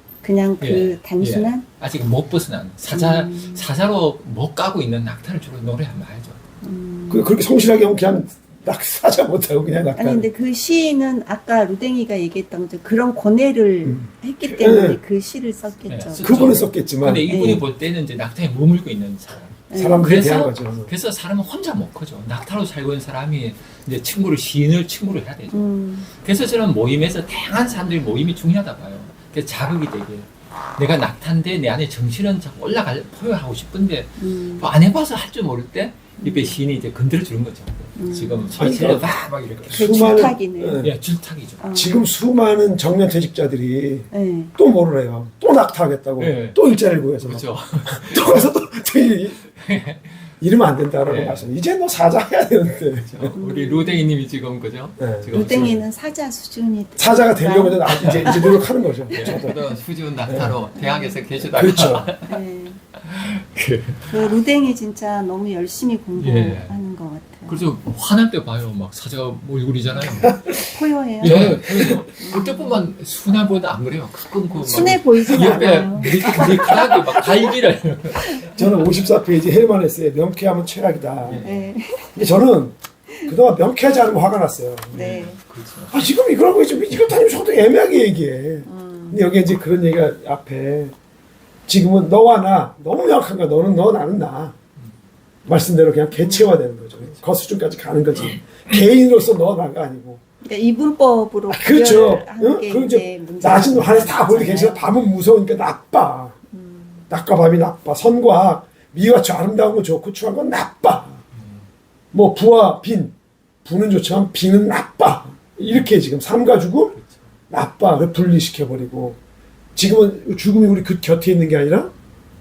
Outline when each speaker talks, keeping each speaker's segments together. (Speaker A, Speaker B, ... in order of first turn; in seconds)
Speaker A: 0.2-1.6, 2.9-3.7, 6.6-7.3, 10.0-16.6, 17.3-17.6, 19.7-20.2, 25.5-26.1, 34.2-34.7, 36.2-36.6, 38.0-39.0, 39.7-40.9, 41.6-42.0, 44.1-44.5, 53.4-54.0, 55.3-59.4, 60.8-61.2, 62.3-62.8, 64.1-67.6, 70.7-72.8, 74.6-77.3, 78.2-78.5, 81.4-82.2, 85.0-85.4, 88.7-89.3, 96.2-96.5, 100.4-104.9, 106.5-107.1
Speaker B: 0.6-6.4, 15.9-41.6, 46.2-46.6, 47.1-48.5, 49.6-50.3, 51.0-51.5, 53.0-55.9, 57.9-58.6, 59.1-62.4, 63.0-64.2, 66.2-66.8, 67.5-70.5, 71.2-78.5, 81.2-81.6, 85.0-86.0, 111.3-111.7
Speaker C: 7.1-10.3, 13.8-15.0, 16.2-17.6, 19.8-20.9, 38.5-40.9, 41.7-49.5, 50.4-53.4, 55.0-55.4, 57.0-59.6, 60.3-60.5, 61.4-62.1, 71.2-72.0, 75.3-76.8, 78.4-81.5, 82.1-85.1, 85.9-91.0, 91.7-94.5, 95.5-100.2, 101.5-106.4, 107.1-111.2, 112.1-117.0, 117.5-119.2, 119.8-121.9